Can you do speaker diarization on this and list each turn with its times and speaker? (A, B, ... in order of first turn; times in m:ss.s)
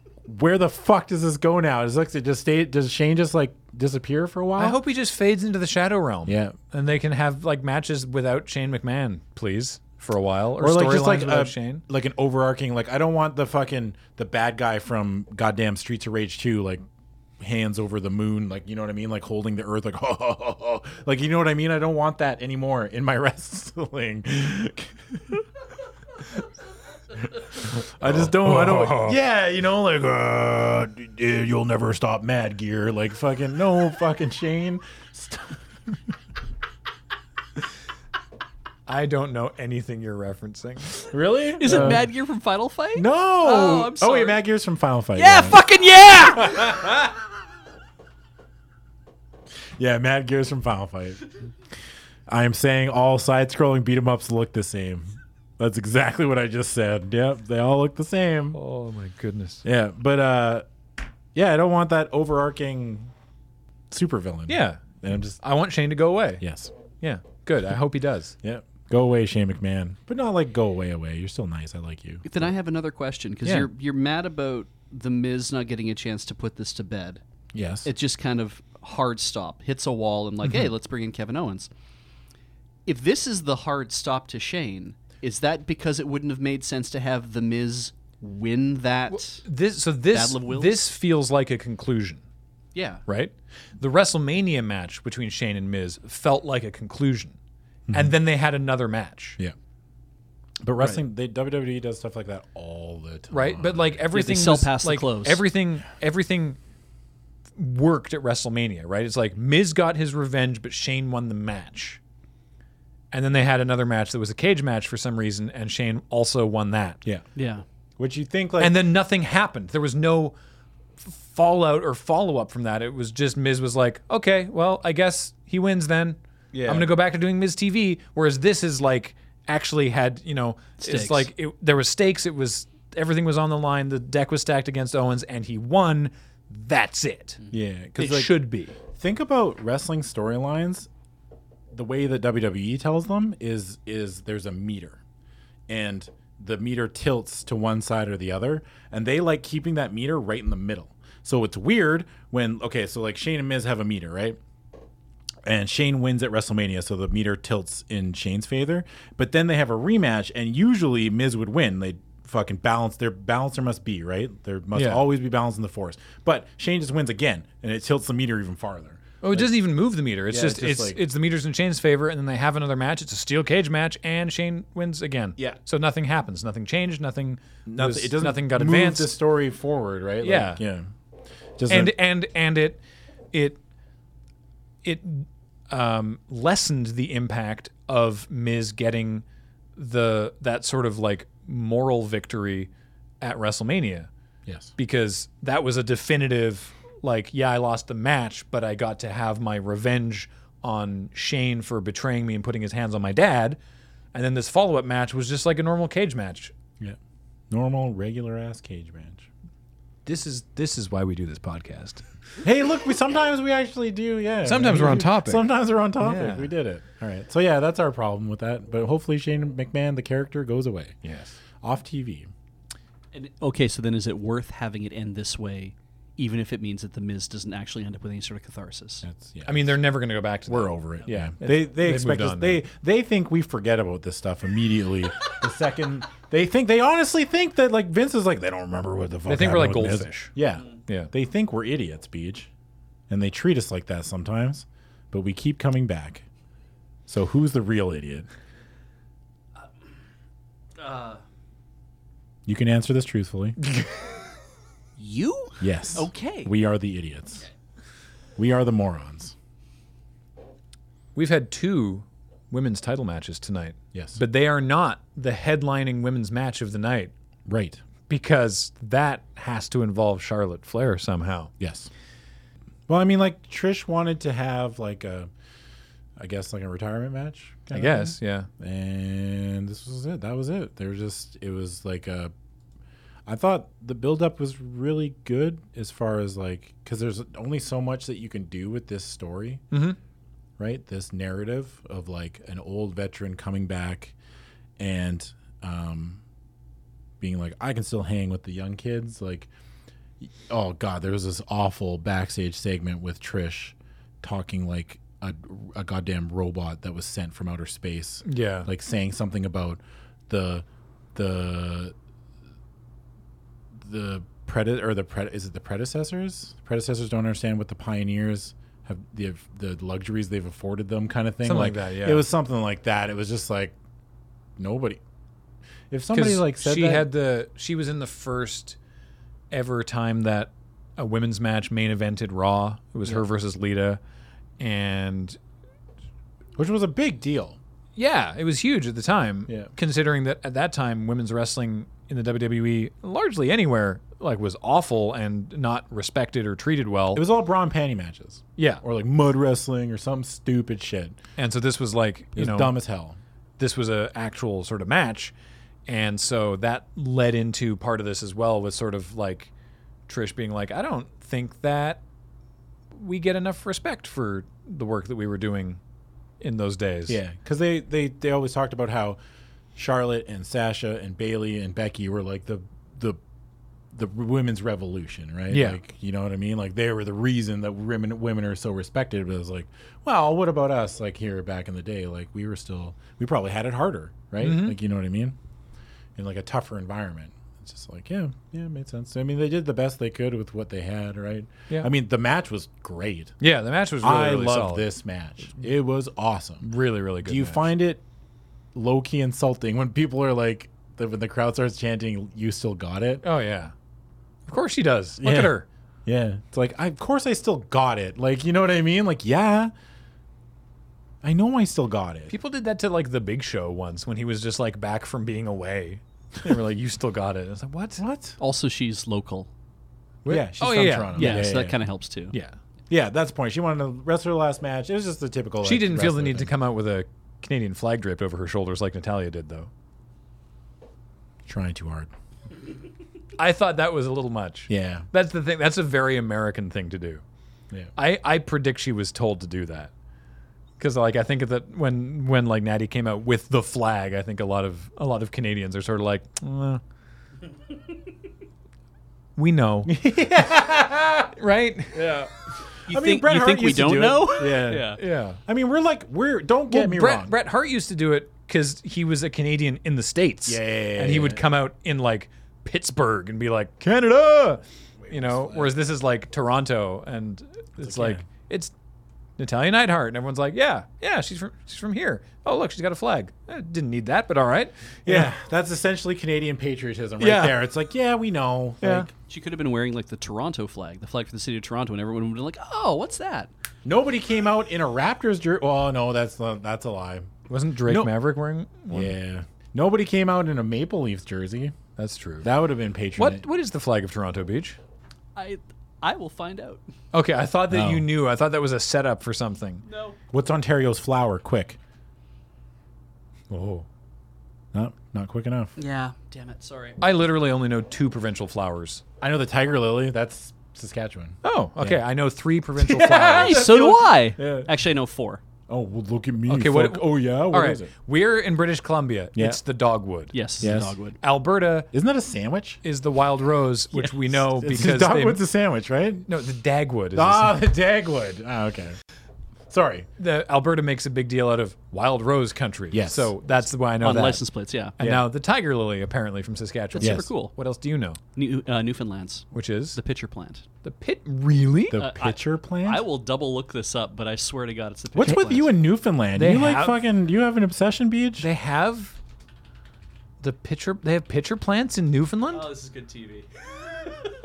0:00.2-0:04.8 A
0:04.6-0:11.8 B
0:06.2-0:06.6 A
0:10.6-0:16.8 A
0:17.4-0:25.4 A
0:27.2-0:36.1 A
0:28.0-0:29.2 B
0:38.9-0:41.1 B
0:41.1-0:42.0 A
0:41.6-0:44.4 C
0:41.7-0:42.0 B
0:42.9-0:45.6 A
0:45.1-0:46.9 C
0:46.3-0:47.2 A
0:49.8-0:51.2 A
0:52.3-0:58.6 A
0:58.5-0:59.6 B
0:59.6-1:00.6 A
1:01.3-1:03.1 A
1:03.9-1:05.4 A
1:04.5-1:04.8 B
1:05.4-1:06.4 B
1:06.4-1:06.7 A
1:07.0-1:08.4 B
1:08.4-1:12.5 A
1:12.2-1:17.2 C
1:17.5-1:17.9 A
1:17.8-1:21.7 C
1:22.8-1:29.4 C
1:29.1-1:32.2 B
1:30.1-1:30.8 C
1:32.7-1:33.0 C
1:33.1-1:37.4 B
1:37.9-1:38.1 A
1:37.9-1:39.4 B
1:40.6-1:44.0 A
1:43.3-1:46.6 B
1:44.1-1:45.4 C
1:47.6-1:52.0 B
1:53.1-1:57.0 B
1:57.4-1:57.6 C
1:58.0-1:58.8 A
1:58.6-2:00.3 B
2:01.0-2:17.4 B
2:06.5-2:06.9 A
2:10.8-2:11.3 C
2:17.5-2:18.4 A
2:18.0-2:18.8 B
2:18.9-2:20.9 A
2:21.7-2:25.0 A
2:25.7-2:34.4 A
2:35.4-2:49.5 A
2:44.7-2:45.0 B
2:49.2-2:59.1 B
2:50.3-2:51.0 A
2:57.6-3:00.9 A
3:00.2-3:00.6 B
3:01.6-3:01.9 A
3:01.7-3:02.8 B
3:03.3-3:03.6 B
3:04.8-3:09.2 B
3:09.8-3:12.7 B
3:13.2-3:14.1 B
3:14.4-3:14.7 A
3:14.8-3:23.6 B
3:24.1-3:26.5 B
3:27.5-3:29.3 A
3:30.0-3:32.0 B
3:32.4-3:41.0 A
3:34.4-3:35.5 B
3:36.0-3:36.5 B
3:41.0-3:41.3 B
3:41.6-3:42.3 A
3:43.1-3:49.0 C
3:49.0-3:49.7 A
3:49.4-3:52.6 B
3:50.5-4:02.5 A
3:59.3-4:00.3 B
4:03.1-4:06.2 A
4:07.1-4:08.3 A
4:10.8-4:11.2 C
4:12.4-4:13.6 A
4:15.0-4:16.5 C
4:15.6-4:17.4 A
4:18.4-4:19.3 A
4:21.1-4:27.1 B
4:23.9-4:24.2 A
4:27.4-4:27.8 A
4:28.1-4:31.5 B
4:31.6-4:31.9 A
4:32.9-4:35.3 A
4:36.2-4:42.3 A
4:37.7-4:38.5 B
4:43.2-4:49.6 A
4:49.7-4:50.0 B
4:50.6-4:54.1 A
4:54.8-4:56.2 A
4:57.2-4:59.5 A
5:00.2-5:11.9 A
5:08.2-5:08.7 B
5:13.8-5:23.8 A
5:21.4-5:22.2 B
5:24.6-5:25.0 A
5:25.9-5:27.1 A
5:26.1-5:28.8 B
5:29.5-5:34.0 B
5:34.6-5:35.4 B
5:36.6-5:37.6 A
5:38.0-5:47.2 B
5:47.1-5:51.2 A
5:48.6-5:48.8 B
5:51.4-5:52.7 B
5:52.4-5:53.2 A
5:53.6-5:55.3 B
5:55.9-5:59.5 B
6:00.1-6:02.0 B
6:02.9-6:05.8 B
6:06.4-6:07.2 B
6:07.1-6:09.2 A
6:09.8-6:13.2 A
6:13.9-6:25.4 A
6:15.5-6:15.8 B
6:24.4-6:24.8 B
6:26.2-6:33.3 A
6:33.4-6:34.9 B
6:34.0-6:36.7 A
6:36.6-6:37.7 B
6:37.2-6:38.0 A
6:38.7-6:43.2 A
6:43.2-6:43.7 B
6:44.5-6:45.7 B
6:45.2-6:49.7 A
6:51.2-6:52.3 A
6:52.3-6:58.0 B
6:58.0-6:58.4 A
6:58.4-6:59.5 C
7:00.2-7:01.5 B
7:00.3-7:01.8 A
7:01.1-7:02.3 C
7:02.9-7:06.5 A
7:05.6-7:09.7 B
7:11.4-7:12.1 A
7:13.4-7:17.2 B
7:14.7-7:15.1 A
7:17.9-7:19.9 B
7:20.8-7:26.8 B
7:29.4-7:30.0 B
7:29.9-7:31.3 A
7:31.3-7:32.1 B
7:31.9-7:32.3 A
7:32.9-7:35.0 C
7:32.9-7:37.3 A
7:34.9-7:35.4 B
7:36.7-7:48.7 B
7:40.4-7:41.4 A
7:45.0-7:45.7 A
7:47.8-7:48.2 A
7:49.4-7:55.3 B
7:55.0-7:59.1 A
7:57.2-7:57.6 B
7:58.8-7:59.1 B
7:59.3-8:03.5 C
8:03.8-8:07.3 A
8:07.5-8:09.1 B
8:07.9-8:08.1 A
8:08.9-8:11.8 A
8:12.0-8:12.5 B
8:12.4-8:13.4 A
8:13.2-8:14.8 B
8:15.4-8:16.8 C
8:17.1-8:19.8 B
8:17.7-8:18.1 A
8:19.8-8:20.2 C
8:20.3-8:21.8 A
8:23.5-8:23.8 B
8:24.7-8:25.7 A
8:25.8-8:27.0 C
8:27.0-8:29.0 B
8:29.2-8:32.0 A
8:31.4-8:33.7 B
8:32.8-8:34.7 A
8:33.4-8:35.4 C
8:35.7-8:37.9 A
8:36.5-8:40.4 B
8:40.3-8:41.2 C
8:40.6-8:41.0 A
8:41.2-8:41.9 B
8:41.9-8:42.8 A
8:42.8-8:45.4 B
8:44.3-8:46.2 A
8:46.3-8:47.6 B
8:47.1-8:49.0 A
8:49.7-8:50.1 A
8:50.2-8:54.4 B
8:52.9-8:53.3 A
8:54.0-8:55.0 C
8:55.0-8:58.2 B
8:55.0-8:55.2 A
8:56.9-8:57.5 C
8:57.0-8:57.3 A
8:58.4-9:00.6 C
8:59.5-9:00.0 B
9:00.8-9:02.0 B
9:01.9-9:03.0 A
9:01.9-9:05.7 C
9:05.1-9:08.5 A
9:06.3-9:07.0 B
9:08.4-9:09.2 B
9:10.4-9:12.7 B
9:12.5-9:14.4 C